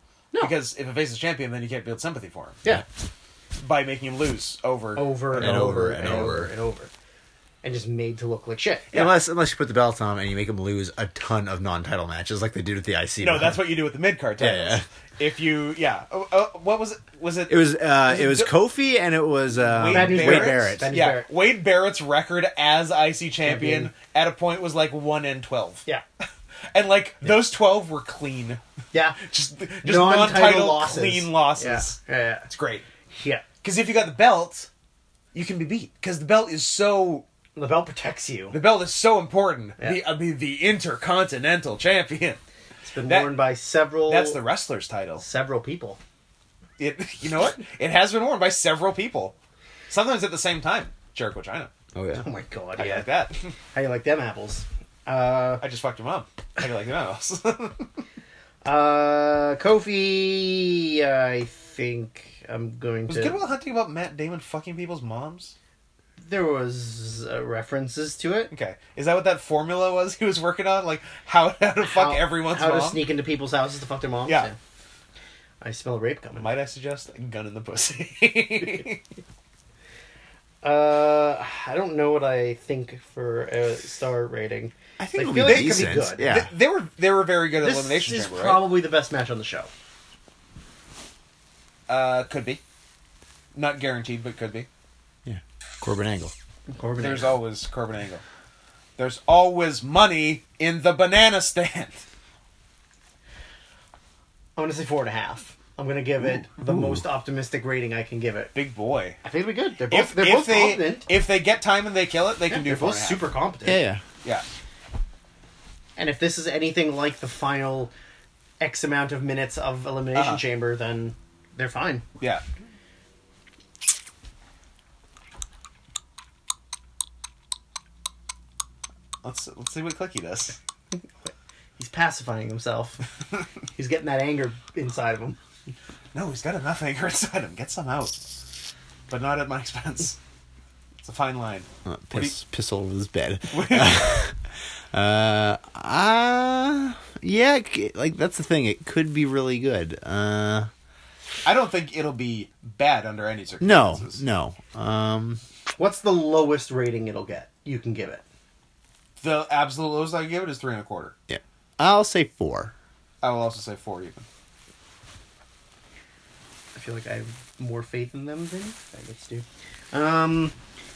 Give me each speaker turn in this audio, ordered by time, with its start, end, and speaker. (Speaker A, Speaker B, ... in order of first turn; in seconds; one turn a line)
Speaker A: 0.4-2.6
Speaker A: 3.6-6.3
Speaker B: 5.0-6.9
Speaker C: 5.3-6.5
Speaker B: 7.6-8.9
Speaker C: 8.9-13.6
Speaker A: 13.2-18.5
Speaker C: 14.4-14.8
Speaker C: 17.5-20.9
Speaker A: 19.6-25.9
Speaker B: 19.9-21.3
Speaker B: 23.4-23.9
Speaker A: 26.7-28.6
Speaker B: 28.9-29.2
Speaker A: 29.2-32.0
Speaker B: 29.8-32.5
Speaker A: 32.5-32.9
Speaker B: 33.1-33.5
Speaker A: 33.6-34.7
Speaker A: 35.3-37.2
Speaker B: 37.6-38.5
Speaker A: 38.5-42.4
Speaker B: 42.8-44.4
Speaker A: 43.1-43.3
Speaker A: 44.1-45.2
Speaker B: 45.2-46.0
Speaker A: 46.8-49.4
Speaker A: 49.9-51.7
Speaker C: 51.9-52.3
Speaker B: 52.1-53.1
Speaker A: 52.8-53.5
Speaker B: 53.7-55.6
Speaker A: 55.6-58.0
Speaker B: 58.6-63.4
Speaker A: 63.1-65.5
Speaker B: 66.2-68.5
Speaker A: 68.5-73.0
Speaker B: 71.8-74.5
Speaker B: 75.6-76.5
Speaker A: 76.4-79.0
Speaker B: 80.6-86.3
Speaker C: 85.0-86.5
Speaker A: 85.3-88.6
Speaker B: 87.6-89.7
Speaker A: 91.9-92.6
Speaker A: 93.5-94.7
Speaker C: 95.2-96.3
Speaker B: 96.7-97.3
Speaker A: 97.0-98.2
Speaker A: 99.0-102.0
Speaker B: 104.6-108.5
Speaker C: 106.2-107.0
Speaker A: 108.5-109.2
Speaker B: 109.2-111.1
Speaker A: 109.9-113.2
Speaker B: 112.5-113.8
Speaker C: 113.6-114.0
Speaker B: 116.0-117.9
Speaker B: 118.6-122.0
Speaker A: 120.1-120.4
Speaker A: 129.2-130.6
Speaker B: 131.3-133.0
Speaker B: 133.7-135.4
Speaker A: 136.1-138.4
Speaker A: 139.1-140.2
Speaker A: 141.0-142.3
Speaker C: 141.8-144.4
Speaker A: 143.5-144.3
Speaker C: 144.9-150.7
Speaker A: 151.4-154.2
Speaker C: 153.6-155.4
Speaker B: 155.8-158.2
Speaker A: 159.2-161.2
Speaker C: 161.3-162.7
Speaker A: 163.2-164.3
Speaker B: 166.8-170.6